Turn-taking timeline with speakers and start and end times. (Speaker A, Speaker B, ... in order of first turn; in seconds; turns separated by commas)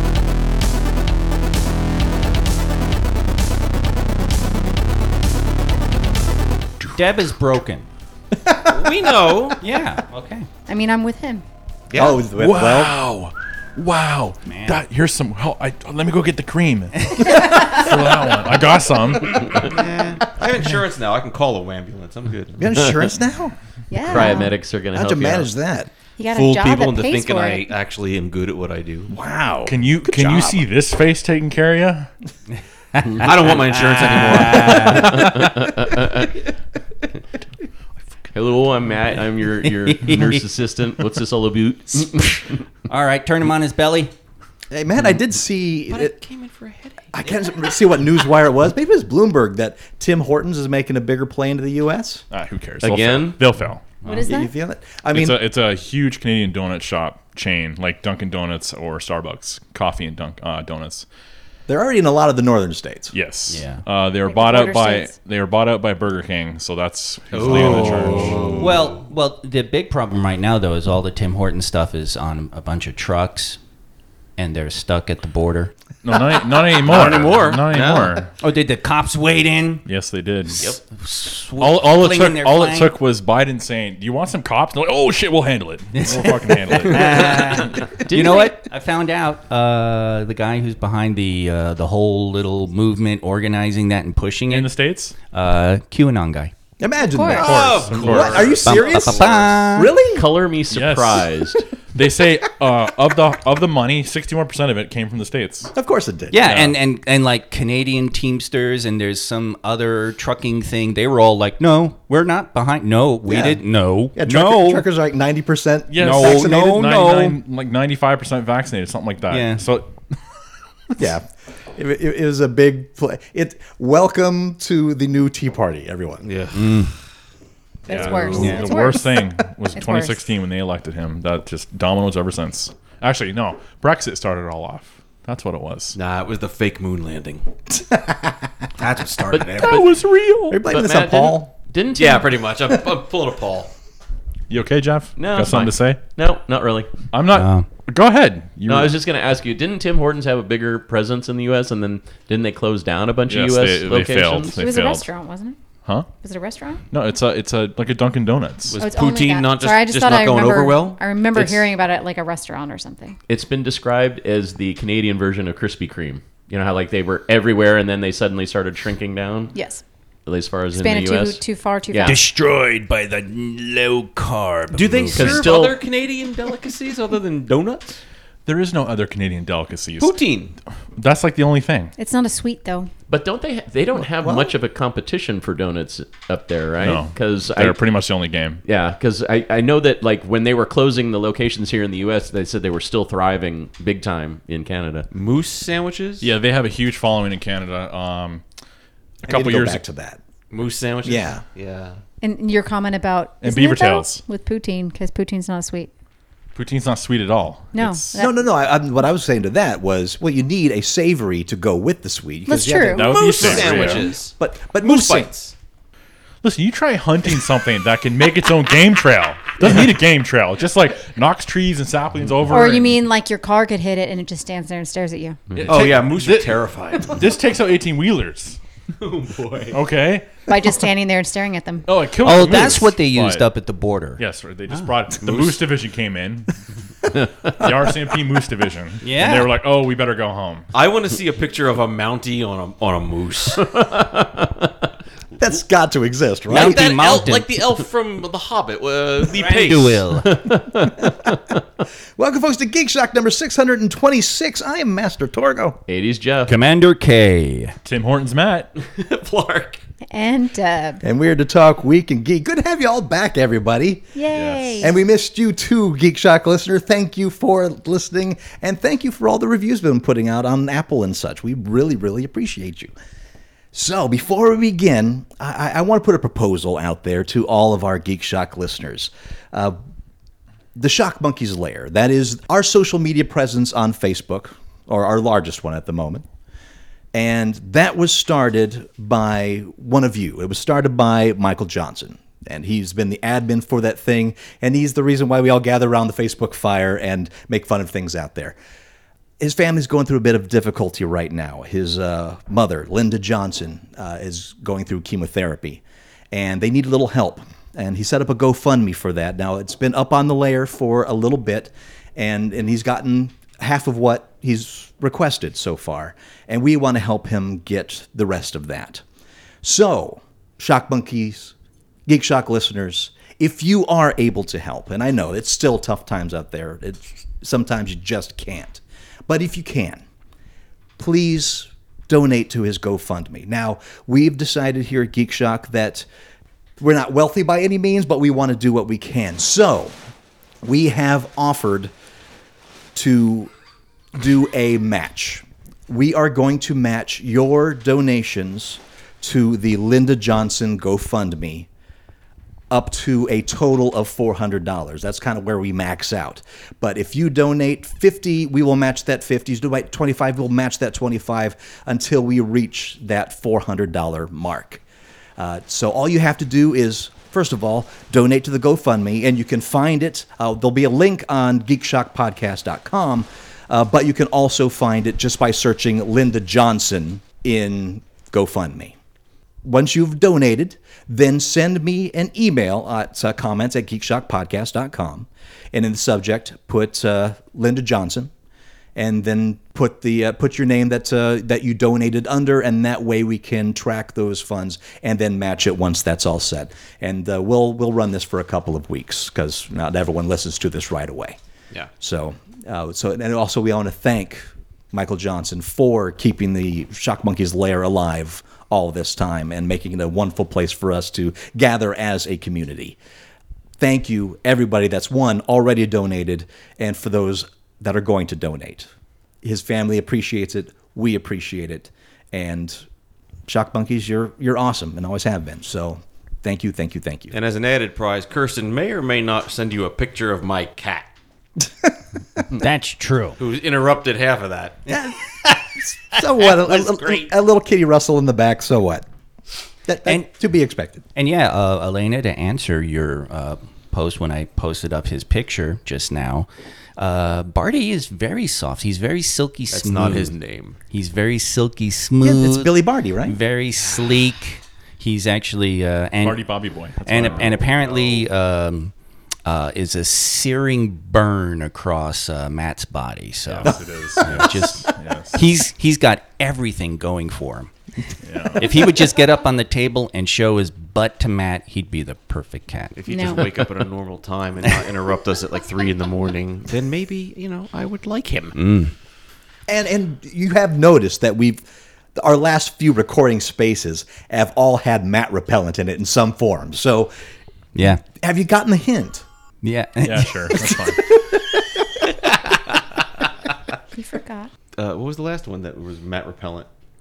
Speaker A: 6.9-7.9, Speaker B: 8.3-9.3, Speaker C: 8.6-9.6, Speaker A: 9.6-10.5, Speaker D: 10.7-11.4, Speaker C: 11.9-12.3, Speaker B: 12.0-13.0, Speaker E: 12.3-19.8, Speaker A: 14.4-14.8, Speaker C: 19.6-22.7, Speaker B: 22.6-23.6, Speaker D: 23.9-24.5, Speaker F: 24.1-25.5, Speaker B: 24.1-25.9, Speaker D: 26.2-27.7, Speaker C: 26.3-29.1, Speaker B: 29.1-30.7, Speaker E: 29.7-32.1, Speaker A: 33.0-35.3, Speaker C: 33.2-35.2, Speaker F: 34.9-36.3, Speaker E: 35.2-35.5, Speaker F: 38.3-42.6, Speaker A: 39.6-40.4, Speaker A: 42.9-44.1, Speaker B: 44.7-46.2, Speaker C: 45.9-47.1, Speaker B: 47.1-52.2, Speaker E: 52.3-53.9, Speaker F: 52.8-53.4, Speaker D: 54.0-54.5, Speaker B: 54.1-55.4, Speaker E: 55.1-61.1, Speaker B: 61.7-63.1, Speaker E: 63.1-68.6, Speaker A: 63.5-63.8, Speaker D: 64.2-65.1, Speaker C: 67.3-69.0, Speaker B: 68.2-68.5, Speaker A: 68.6-73.6, Speaker A: 74.4-75.7, Speaker E: 76.0-78.3, Speaker C: 76.7-78.2, Speaker A: 78.4-79.9, Speaker E: 79.9-80.7, Speaker A: 80.5-82.9, Speaker E: 81.6-88.0, Speaker A: 86.0-94.8, Speaker F: 88.1-88.5, Speaker E: 94.5-95.2, Speaker A: 95.3-96.5, Speaker B: 96.8-100.3, Speaker D: 97.0-97.5, Speaker E: 97.3-98.6, Speaker C: 97.4-99.7, Speaker A: 98.6-99.9, Speaker F: 100.1-101.7, Speaker E: 100.7-101.3, Speaker E: 101.9-105.7, Speaker B: 105.7-106.5, Speaker A: 106.3-114.8, Speaker E: 106.4-106.8, Speaker B: 113.3-113.6, Speaker B: 114.1-116.7, Speaker E: 115.9-119.9, Speaker A: 116.0-117.4, Speaker A: 119.3-119.7, Speaker B: 121.0-126.2, Speaker C: 126.2-126.8, Speaker A: 126.5-126.9, Speaker D: 127.9-130.2, Speaker E: 127.9-136.0, Speaker C: 128.0-128.7, Speaker A: 128.4-128.7, Speaker C: 135.9-137.4, Speaker B: 137.8-138.4, Speaker C: 138.8-139.8, Speaker A: 139.1-139.4, Speaker F: 139.3-139.9, Speaker E: 139.6-140.6, Speaker B: 140.5-141.5, Speaker F: 140.7-142.4, Speaker C: 141.9-143.7, Speaker E: 144.5-146.0, Speaker F: 145.2-146.9, Speaker E: 147.1-148.9, Speaker A: 147.3-147.7, Speaker F: 148.7-154.6, Speaker E: 153.3-155.1, Speaker D: 154.6-155.6, Speaker D: 156.2-156.8, Speaker E: 156.9-158.8, Speaker C: 158.7-161.7, Speaker D: 158.8-163.2, Speaker F: 163.3-169.6, Speaker D: 169.5-169.8, Speaker F: 170.3-172.2, Speaker D: 170.7-172.2, Speaker A: 172.1-175.5, Speaker C: 174.7-178.0, Speaker F: 175.1-175.8, Speaker E: 178.5-180.2, Speaker C: 180.0-180.6, Speaker E: 181.0-181.9, Speaker D: 182.0-182.9, Speaker F: 183.1-187.8, Speaker B: 184.1-184.5, Speaker E: 186.8-188.6, Speaker F: 188.7-195.1, Speaker C: 195.1-196.3, Speaker E: 196.2-198.4, Speaker E: 199.2-199.8, Speaker B: 199.2-200.2, Speaker C: 200.5-202.0, Speaker B: 201.0-201.4, Speaker D: 202.2-205.9, Speaker E: 203.4-204.2, Speaker E: 206.6-208.2, Speaker D: 207.7-208.4, Speaker B: 208.2-215.3, Speaker D: 212.5-213.2, Speaker E: 212.9-214.2, Speaker C: 213.0-215.5, Speaker E: 216.4-223.0, Speaker D: 222.5-225.4, Speaker E: 225.6-226.6, Speaker C: 225.6-227.4, Speaker E: 227.1-228.6, Speaker C: 229.0-229.8, Speaker E: 229.7-230.4, Speaker D: 230.5-231.9, Speaker E: 231.9-233.4, Speaker A: 232.2-234.9, Speaker E: 234.2-236.5, Speaker C: 235.2-235.6, Speaker E: 237.5-240.7, Speaker A: 239.0-239.5, Speaker C: 240.7-243.8, Speaker F: 243.8-244.7, Speaker B: 245.4-246.8, Speaker A: 246.5-247.5, Speaker C: 246.5-250.1, Speaker A: 249.3-250.4, Speaker F: 250.3-251.4, Speaker B: 252.2-255.8, Speaker F: 255.9-256.5, Speaker A: 256.5-257.8, Speaker E: 257.9-258.7, Speaker C: 258.8-259.8, Speaker D: 260.1-261.0, Speaker B: 261.0-264.2, Speaker D: 264.1-264.9, Speaker E: 264.3-264.9, Speaker B: 264.8-272.9, Speaker B: 273.7-279.8, Speaker B: 280.8-286.3, Speaker B: 287.1-298.6, Speaker B: 299.4-319.0, Speaker B: 319.6-321.5, Speaker B: 322.1-330.0, Speaker B: 331.0-336.1, Speaker B: 336.8-340.0, Speaker B: 340.6-341.9, Speaker B: 342.9-343.5, Speaker B: 344.1-351.7, Speaker B: 352.7-364.8, Speaker B: 365.4-379.0, Speaker B: 379.6-388.3, Speaker B: 388.9-401.4, Speaker B: 402.0-413.0, Speaker B: 413.8-418.9, Speaker B: 419.4-422.9, Speaker B: 423.5-427.4, Speaker C: 427.3-431.1, Speaker A: 432.5-433.4, Speaker C: 433.4-434.8, Speaker B: 434.9-435.2, Speaker B: 435.8-439.1, Speaker A: 436.7-437.1, Speaker B: 439.9-441.0, Speaker A: 441.1-450.3, Speaker C: 449.7-450.8, Speaker A: 450.9-456.5, Speaker B: 452.2-453.4, Speaker E: 456.2-458.2, Speaker A: 457.1-458.9, Speaker A: 459.5-467.7, Speaker E: 463.5-465.4, Speaker E: 468.2-468.8, Speaker A: 468.6-473.4, Speaker C: 473.0-478.6, Speaker D: 473.1-473.4, Speaker A: 478.6-478.9, Speaker B: 479.7-481.6, Speaker B: 482.1-487.1, Speaker A: 487.8-488.0, Speaker B: 488.1-489.2, Speaker A: 489.6-490.6, Speaker E: 490.0-491.0, Speaker B: 490.8-491.1, Speaker C: 492.3-492.8, Speaker D: 493.9-494.5, Speaker C: 494.8-496.7